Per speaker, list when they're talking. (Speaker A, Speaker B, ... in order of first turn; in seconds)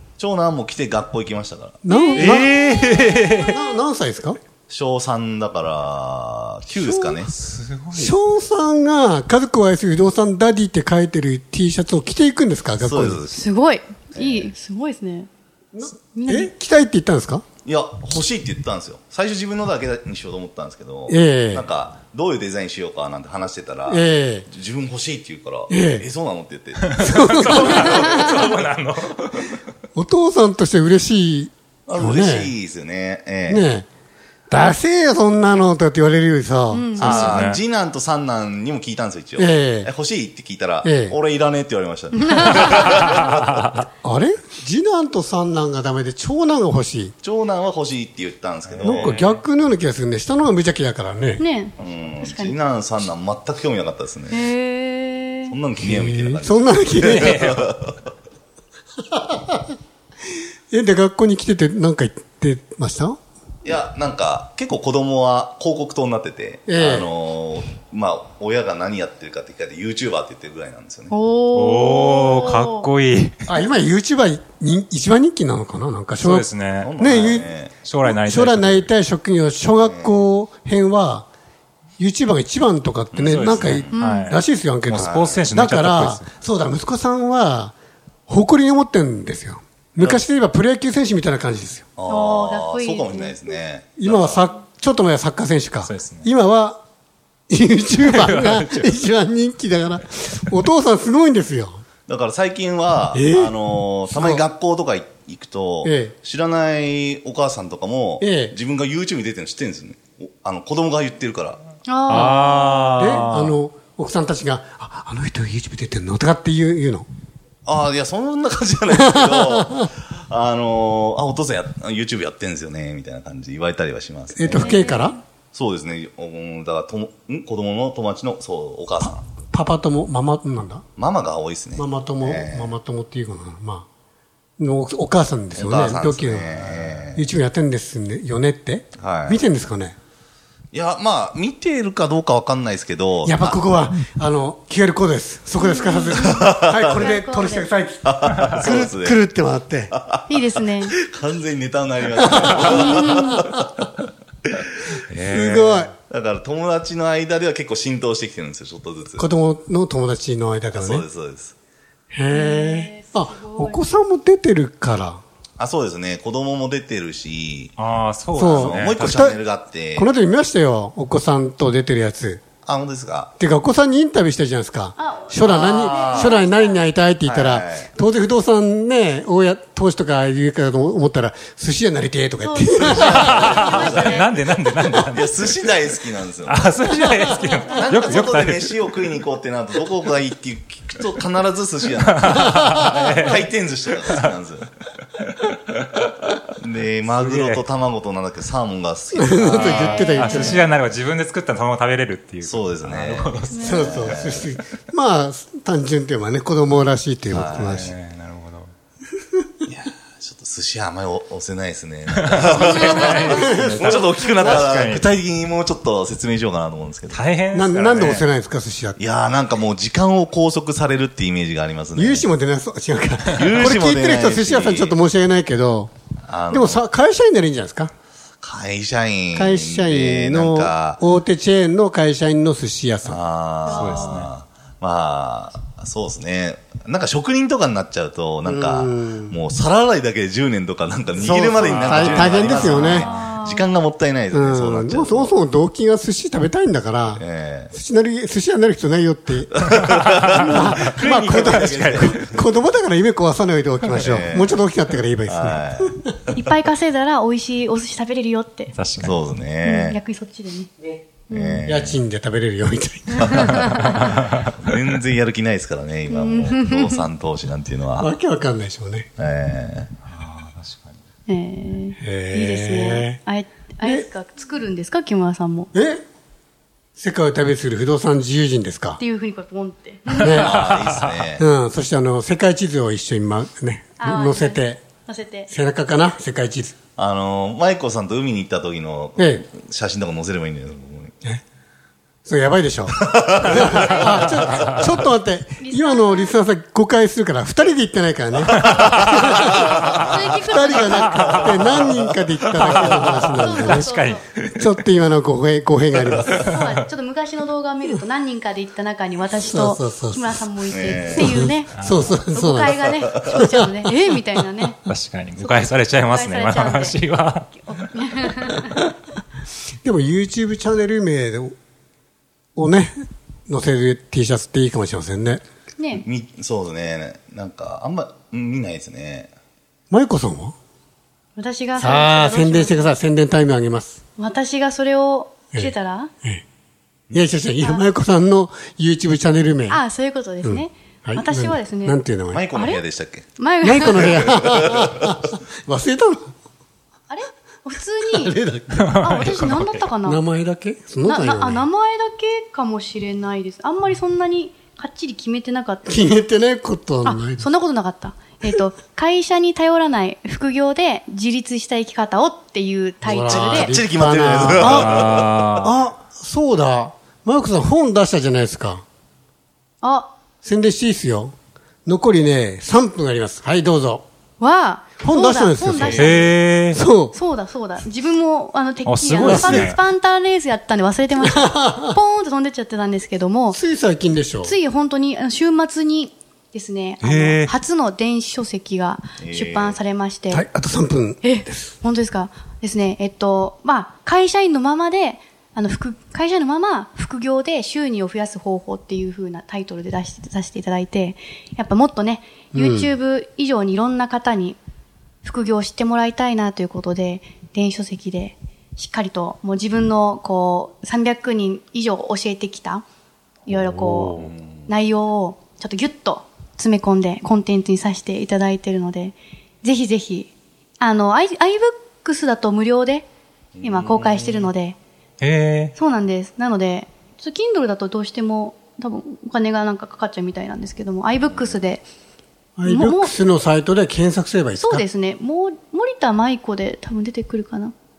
Speaker A: 0.2-1.8, 4.7-7.3, 12.8-13.5, 14.1-14.5, 17.6-28.7, 31.9-33.7, 37.0-43.8, 47.2-49.2, 51.8-54.5, 55.5-57.9, 63.6-71.1, 76.8-77.8, 79.8-80.2, 83.1-84.1, 84.9-85.5, 92.0-94.4, 102.1-111.6, 117.7-124.9, 125.5-129.2, 130.9-132.7, 135.5-137.2, 139.0-139.4, 140.7-143.6, 146.2-147.1, 148.0-149.2, 149.9-153.6, 154.9-159.3, 160.7-161.5, 165.6-167.8, 168.3-170.1, 172.6-173.3, 175.4-176.4, 177.2-177.9, 182.8-184.2, 185.1-187.0, 187.6-194.7, 196.6-200.6, 202.4-204.6, 207.3-207.9, 209.7-217.2, 219.0-222.3, 223.3-225.0, 226.2-226.8, 228.4-231.0, 233.1-245.3, 247.2-247.7, 249.7-252.3, 253.9-254.6, 255.3-256.5, 259.0-260.0, 261.3-262.0, 264.0-268.1, 269.2-269.9, 280.2-281.4, 287.0-291.1, 293.0-294.4, 298.6-300.0, 302.7-303.0, 310.7-311.4, 325.9-329.3, 342.3-343.2, 343.8-344.6, 363.3-365.7, 389.2-389.8, 414.1-414.7, 423.6-424.5, 431.3-431.6
Speaker B: 1.8-2.8, 3.4-4.4, 7.9-13.2, 15.7-17.4, 21.1-21.7, 23.9-24.5, 25.7-26.1, 27.0-28.3, 29.9-32.5, 33.5-33.9, 34.5-37.4, 39.4-39.9, 40.8-41.2, 44.0-47.1, 48.8-51.4, 55.8-57.5, 59.1-59.7, 60.7-63.2, 66.7-67.1, 73.5-77.5, 78.1-81.3, 82.0-87.7, 88.3-91.8, 94.0-96.8, 97.5-101.8, 103.1-104.4, 105.8-106.1, 108.2-108.5, 113.0-117.0, 118.9-119.8, 124.3-125.2, 129.0-130.8, 131.8-133.9, 134.6-139.9, 143.2-149.9, 152.2-153.8, 155.3-155.9, 159.2-161.1, 162.1-165.2, 168.3-169.4, 169.9-172.4, 173.4-183.6, 199.1-200.7, 203.6-207.9, 213.1-214.7, 217.5-219.0, 221.9-225.9, 226.5-227.9, 229.3-233.2, 238.4-239.4, 241.2-243.1, 244.3-256.1, 261.6-264.1, 268.0-269.1, 272.0-273.2, 275.7-276.0, 276.9-279.0, 280.2-280.6, 281.4-284.8, 285.5-286.7, 289.2-289.4, 292.2-303.9, 304.6-306.5, 309.4-310.4, 311.1-314.2, 319.8-321.5, 322.6-322.9, 323.5-325.4, 329.9-330.5, 331.8-334.0, 337.1-339.8, 340.4-342.4, 343.6-346.3, 348.1-351.7, 355.9-357.4, 363.0-368.8, 370.4-371.3, 371.9-374.0, 375.0-377.1, 379.1-379.7, 381.2-382.0, 383.5-384.5, 390.3-391.7, 402.5-402.9, 432.6-434.8
Speaker C: 1.9-3.8, 13.3-15.3, 16.0-16.5, 36.7-37.5, 42.3-42.9, 51.4-52.5, 54.3-55.5, 71.1-72.9, 83.9-84.4, 92.1-93.5, 111.8-113.1, 124.5-125.2, 145.6-147.7, 150.3-150.9, 152.6-153.3, 162.3-163.9, 175.0-176.8, 182.4-184.4, 199.5-200.6, 203.5-204.2, 233.6-234.2, 242.8-243.6, 256.3-258.7, 259.6-260.7, 261.3-261.6, 263.4-264.0, 266.1-267.0, 271.3-275.7, 279.0-280.7, 284.0-285.5, 293.5-294.8, 295.6-296.3, 299.3-301.7, 303.0-304.2, 306.3-314.8, 315.4-317.0, 317.6-318.9, 325.8-326.0, 331.4-332.9, 334.2-336.1, 337.6-337.8, 339.7-342.0, 342.5-342.8, 343.4-344.0, 347.1-348.3, 349.0-350.2, 351.0-356.1, 357.0-363.7, 369.8-370.1, 374.4-376.3, 377.1-383.6, 384.4-390.4, 391.2-404.6, 405.2-412.8, 413.4-423.1, 423.6-424.8, 425.7-431.8, 432.6-433.1, 434.6-437.7
Speaker D: 2.2-3.5, 7.2-8.2, 26.9-29.3, 37.2-37.6, 57.0-57.5, 71.5-73.4, 76.2-76.9, 77.8-78.9, 83.3-86.3, 95.8-96.3, 98.1-98.9, 112.1-113.5, 167.8-169.2, 183.5-185.4, 186.4-188.8, 192.4-193.4, 197.1-197.6, 199.6-203.4, 207.7-208.7, 212.1-215.0, 217.1-218.3, 233.8-234.3, 241.6-243.0, 250.8-252.2, 258.7-259.2, 270.1-271.0, 302.9-304.7, 311.8-312.0, 314.9-317.6, 348.8-349.8, 364.6-365.7, 375.9-376.8, 378.8-379.8, 387.0-387.5, 413.7-414.2, 425.2-425.7